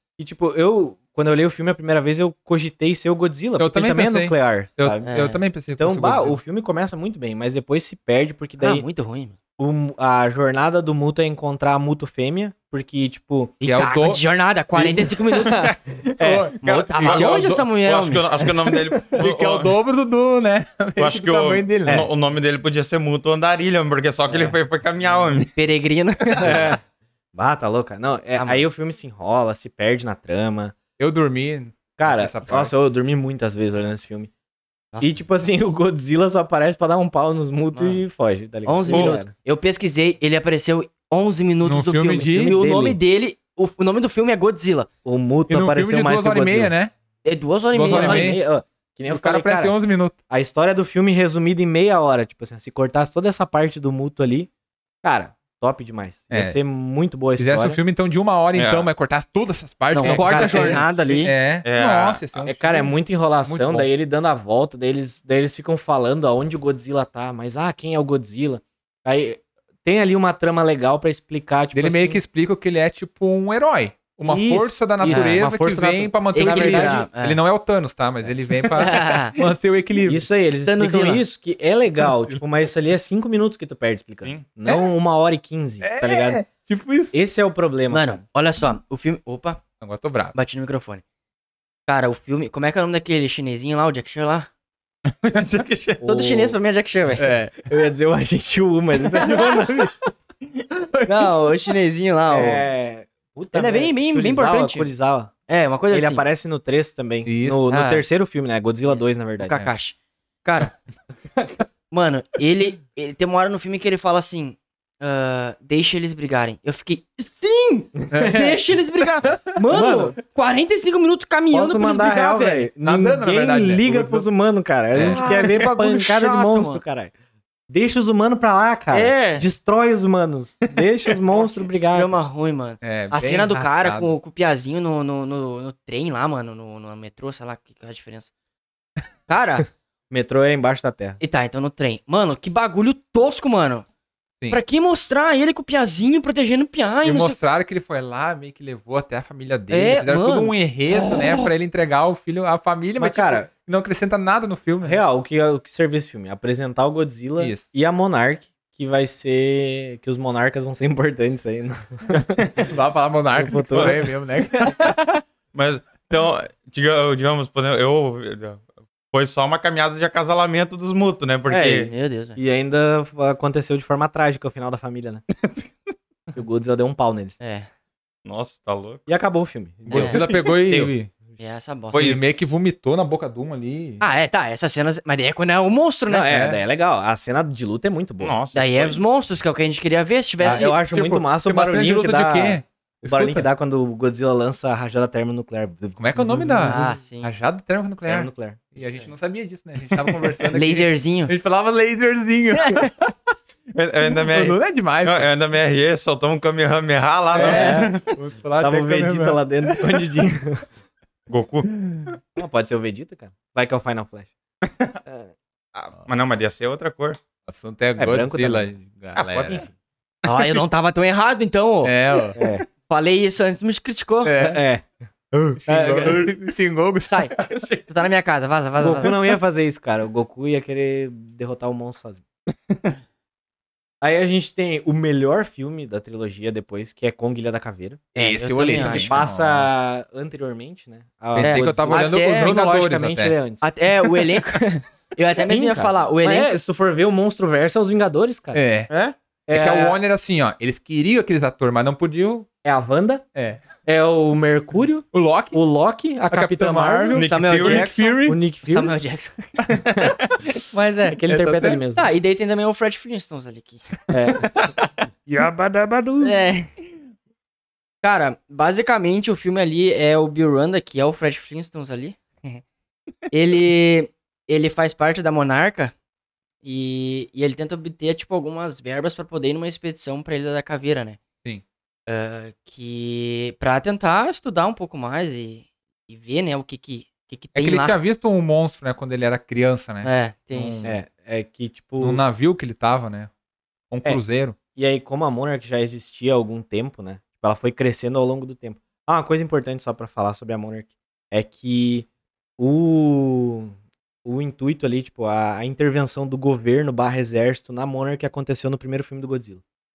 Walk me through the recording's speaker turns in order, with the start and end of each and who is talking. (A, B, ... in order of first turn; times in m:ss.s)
0:00.2-0:05.0 A
0:03.6-0:06.4 B
0:05.0-0:05.4 C
0:05.8-0:08.9 A
0:08.6-0:09.4 C
0:09.6-0:13.6 A
0:13.6-0:15.8 C
0:13.6-0:14.2 B
0:14.8-0:16.6 A
0:16.2-0:17.7 B
0:16.6-0:18.3 C
0:16.7-0:19.8 D
0:19.0-0:22.1 B
0:21.0-0:25.5 D
0:24.3-0:24.6 A
0:25.6-0:26.8 C
0:26.4-0:26.8 A
0:27.3-0:30.8 A
0:28.4-0:28.6 C
0:31.0-0:32.7 B
0:32.0-0:34.3 A
0:34.9-0:35.2 C
0:35.0-0:39.3 A
0:37.7-0:38.0 C
0:38.6-0:44.9 C
0:38.9-0:39.2 D
0:41.6-0:42.6 B
0:42.1-0:43.0 A
0:45.0-0:46.7 A
0:45.5-0:46.9 B
0:47.2-0:48.4 C
0:47.7-0:48.4 B
0:47.9-0:49.8 A
0:49.1-0:50.2 B
0:50.3-0:54.5 A
0:55.0-0:57.8 A
0:56.3-0:56.6 B
0:57.4-1:03.9 B
0:58.6-0:58.9 D
0:59.9-1:01.3 C
1:00.0-1:01.3 A
1:01.6-1:02.4 D
1:02.4-1:12.2 A
1:11.7-1:20.3 B
1:14.2-1:17.1 A
1:15.0-1:15.4 C
1:16.3-1:17.4 C
1:18.3-1:19.0 A
1:18.8-1:19.4 C
1:20.1-1:26.4 A
1:20.6-1:21.2 C
1:22.0-1:22.5 B
1:24.2-1:24.5 D
1:25.8-1:27.2 B
1:27.1-1:28.2 A
1:27.9-1:29.6 C
1:29.8-1:30.4 B
1:30.3-1:31.0 C
1:31.9-1:34.5 C
1:35.1-1:36.0 D
1:36.0-1:36.6 A
1:36.0-1:37.4 C
1:37.2-1:37.7 B
1:37.7-1:40.0 A
1:39.2-1:39.6 B
1:40.9-1:41.4 B
1:41.1-1:42.6 C
1:42.3-1:45.3 A
1:43.5-1:44.9 C
1:45.5-1:46.2 C
1:45.9-1:49.7 A
1:47.3-1:47.6 B
1:47.7-1:48.0 C
1:48.9-1:50.7 C
1:51.4-1:51.6 A
1:51.9-2:02.7 C
1:58.1-1:58.4 B
1:58.1-1:58.6 A
1:59.7-2:00.2 A
2:01.5-2:07.1 A
2:02.8-2:04.3 B
2:04.9-2:05.6 B
2:05.0-2:06.8 C
2:07.7-2:12.1 A
2:08.9-2:09.5 C
2:11.9-2:18.3 C
2:12.8-2:14.2 B
2:19.3-2:19.7 C
2:20.1-2:21.2 A
2:21.2-2:23.8 C
2:24.5-2:27.4 C
2:27.0-2:35.0 B
2:29.7-2:31.4 C
2:33.0-2:33.5 A
2:34.8-2:42.7 A
2:37.4-2:37.7 B
2:42.6-2:45.0 B
2:43.4-2:44.7 A
2:45.5-2:51.9 D
2:51.5-2:55.2 A
2:51.9-2:52.4 C
2:56.4-2:57.4 A
2:57.4-2:57.7 C
2:58.2-2:59.1 D
2:59.1-3:00.3 A
2:59.9-3:01.1 B
2:59.9-3:00.2 C
3:00.3-3:00.9 D
3:01.4-3:02.2 C
3:01.9-3:02.2 D
3:02.0-3:04.0 B
3:04.0-3:06.4 C
3:06.1-3:08.4 A
3:06.3-3:06.6 B
3:08.2-3:09.0 D
3:08.5-3:10.8 C
3:10.4-3:17.0 A
3:10.4-3:13.5 B
3:16.0-3:23.1 B
3:16.6-3:17.3 C
3:18.1-3:19.1 A
3:20.5-3:21.3 C
3:22.6-3:22.9 C
3:23.7-3:28.1 D
3:24.2-3:25.3 B
3:27.4-3:30.2 B
3:27.4-3:27.9 C
3:27.4-3:27.9 A
3:28.6-3:30.6 A
3:31.3-3:31.7 D
3:32.4-3:34.3 A
3:34.6-3:35.0 D
3:35.7-3:37.2 D
3:37.5-3:39.7 B
3:38.0-3:38.8 A
3:39.2-3:39.7 D
3:40.2-3:41.9 C
3:40.3-3:40.6 D
3:41.8-3:42.4 B
3:42.4-3:42.6 A
3:42.9-3:44.4 C
3:44.2-3:44.6 B
3:44.4-3:46.3 A
3:45.6-3:47.4 B
3:47.1-3:47.4 C
3:47.4-3:47.8 D
3:47.9-3:49.2 C
3:48.8-3:52.2 A
3:54.0-4:04.7 A
3:58.2-3:59.2 C
3:58.2-3:59.7 B
4:01.3-4:03.4 B
4:01.4-4:02.5 C
4:03.6-4:06.5 C
4:05.4-4:08.6 A
4:08.5-4:08.9 B
4:08.9-4:09.2 C
4:09.5-4:10.0 A
4:09.5-4:12.5 B
4:12.6-4:13.2 A
4:13.3-4:13.6 B
4:13.8-4:18.9 A
4:15.1-4:15.6 B
4:16.3-4:18.4 B
4:17.2-4:17.9 D
4:17.2-4:19.5 C
4:20.7-4:21.2 C
4:21.1-4:22.1 A
4:21.3-4:21.8 B
4:22.0-4:23.8 C
4:24.1-4:24.7 A
4:25.3-4:26.4 A
4:26.2-4:26.7 C
4:28.0-4:32.6 C
4:33.3-4:35.9 C
4:36.6-4:41.2 C
4:42.1-4:48.0 C
4:47.6-4:51.0 B
4:50.0-4:50.9 C
4:50.8-4:52.2 A
4:52.0-4:53.3 B
4:53.9-4:54.6 B
4:54.8-5:02.1 A
5:02.6-5:09.6 A